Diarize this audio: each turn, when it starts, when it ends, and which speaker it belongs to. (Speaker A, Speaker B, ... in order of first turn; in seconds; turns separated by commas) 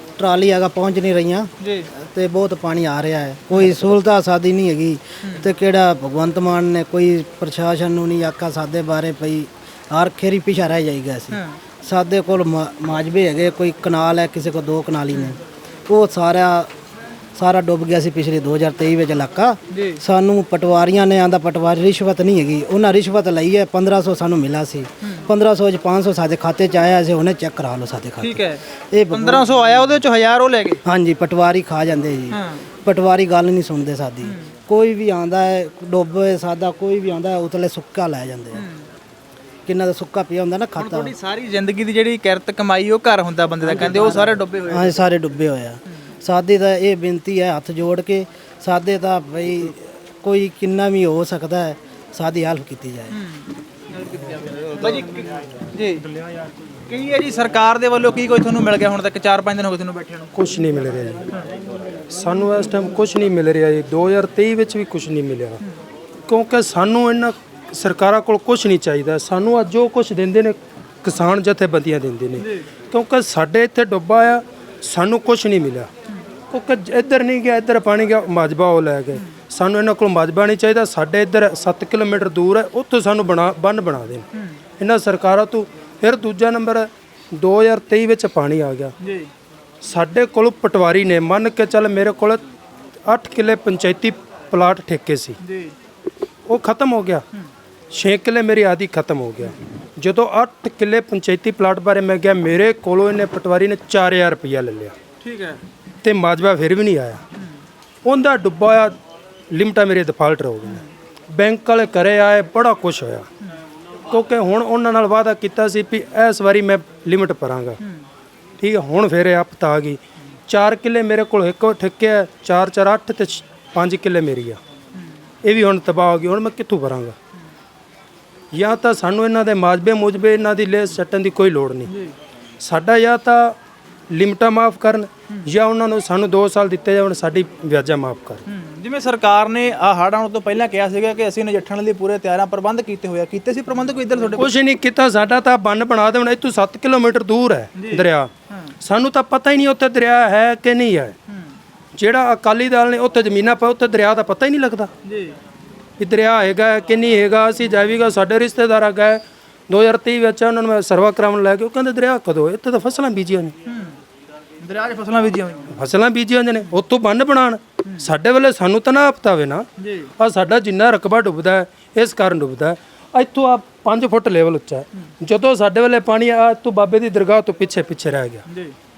Speaker A: 0.2-16.7, Speaker B: 1.6-1.9, Speaker B: 3.5-3.8, Speaker B: 11.3-11.6, Speaker A: 17.4-29.4, Speaker B: 19.7-20.0, Speaker B: 28.2-30.8, Speaker A: 30.8-38.6, Speaker B: 32.3-32.6, Speaker B: 38.6-38.9, Speaker A: 39.7-41.1, Speaker B: 40.8-45.1, Speaker A: 43.6-53.2, Speaker B: 53.1-56.0, Speaker B: 56.9-60.3, Speaker C: 60.3-61.3, Speaker C: 62.1-65.6, Speaker C: 66.3-75.9, Speaker B: 72.4-72.7, Speaker C: 76.5-84.3, Speaker C: 84.8-88.9, Speaker B: 89.0-89.3, Speaker C: 89.8-92.4, Speaker C: 93.1-95.4, Speaker B: 95.4-95.7, Speaker C: 96.5-97.2, Speaker C: 97.9-105.0, Speaker B: 105.2-105.6, Speaker C: 106.0-107.2, Speaker C: 108.0-109.0, Speaker C: 109.5-110.8, Speaker C: 111.3-113.3, Speaker C: 114.1-117.8, Speaker C: 118.6-124.6, Speaker C: 125.4-127.2, Speaker C: 128.5-131.9, Speaker B: 131.9-132.1, Speaker C: 132.6-133.6, Speaker C: 134.1-138.4, Speaker B: 138.5-144.5, Speaker C: 144.4-151.2, Speaker B: 147.8-148.7, Speaker C: 152.0-154.9, Speaker B: 155.1-155.4, Speaker C: 156.0-163.5, Speaker B: 163.7-164.0, Speaker B: 164.6-165.7, Speaker C: 165.7-169.7, Speaker B: 169.8-170.1, Speaker C: 170.2-178.4, Speaker B: 178.5-178.7